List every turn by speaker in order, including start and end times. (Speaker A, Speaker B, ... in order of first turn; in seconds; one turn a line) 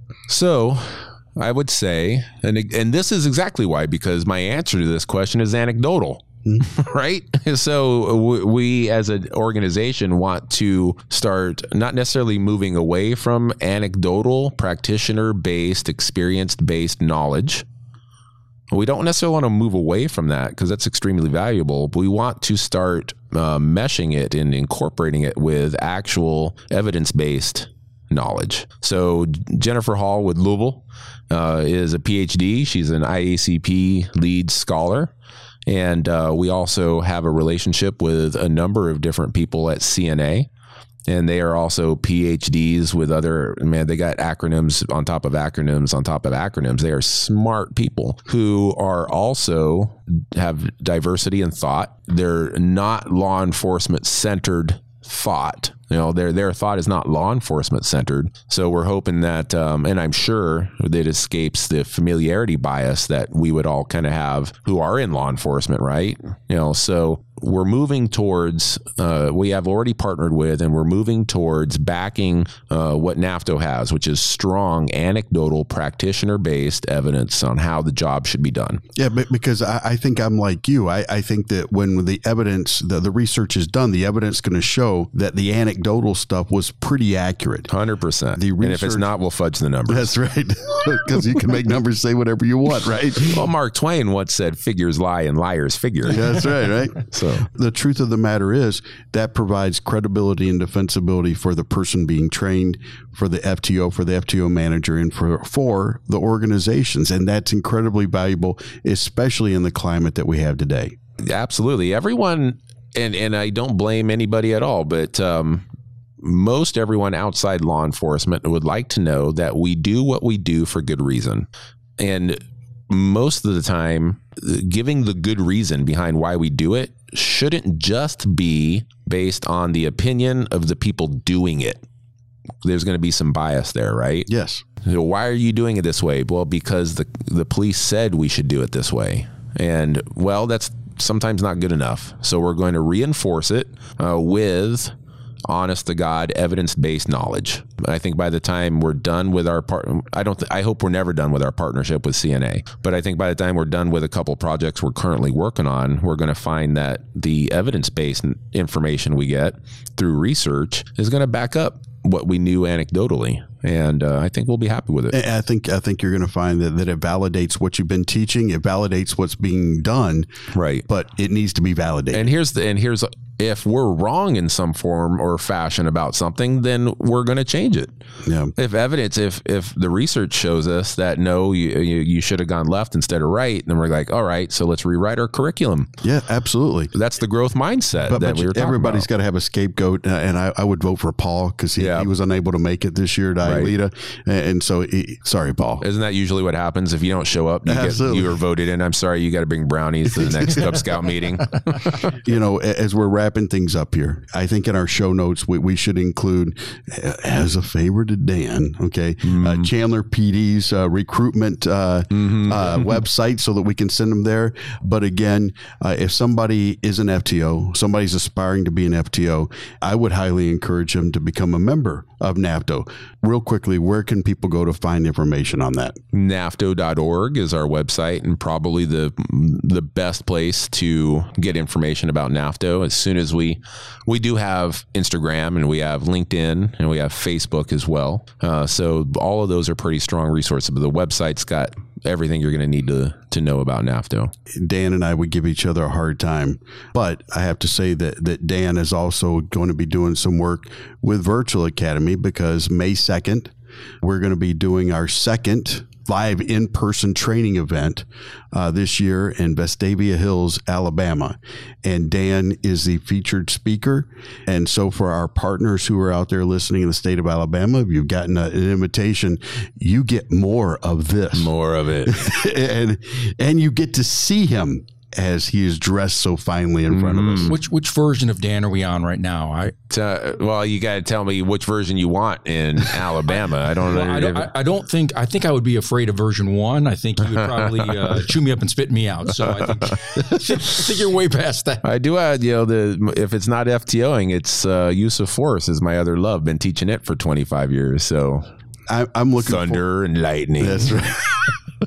Speaker A: 0.3-17.7
Speaker A: 18.7-35.1
Speaker A: 35.7-40.5
Speaker A: 41.1-78.8
Speaker B: 79.0-87.7
Speaker A: 87.7-90.1
Speaker B: 88.4-89.1
Speaker B: 89.9-93.5
Speaker A: 93.2-96.5
Speaker B: 96.1-111.0
Speaker A: 97.1-97.5
Speaker A: 111.2-115.7
Speaker A: 116.2-121.5
Speaker A: 122.0-131.8
Speaker A: 132.6-134.3
Speaker B: 134.3-134.6
Speaker A: 134.8-144.9
Speaker A: 145.5-165.2
Speaker B: 165.1-170.3
Speaker A: 170.5-170.9
Speaker B: 170.9-172.3
Speaker A: 172.1-177.9
Speaker B: 178.2-178.5
Speaker A: 178.6-185.9
Speaker B: 186.0-186.9
Speaker A: 186.9-189.1
Speaker B: 188.1-195.8
Speaker A: 191.8-192.1
Speaker A: 193.4-193.8
Speaker A: 195.8-201.8
Speaker B: 197.6-198.4
Speaker B: 202.1-226.0
Speaker A: 209.2-209.7
Speaker A: 212.1-212.8
Speaker A: 226.1-244.3
Speaker B: 244.5-271.5
Speaker A: 271.4-272.2
Speaker B: 272.1-277.5
Speaker A: 276.9-277.6
Speaker C: 277.5-279.8
Speaker A: 279.9-284.5
Speaker C: 283.8-291.8
Speaker A: 289.9-290.4
Speaker A: 291.8-298.5
Speaker B: 298.9-299.8
Speaker A: 299.4-301.1
Speaker B: 300.6-301.6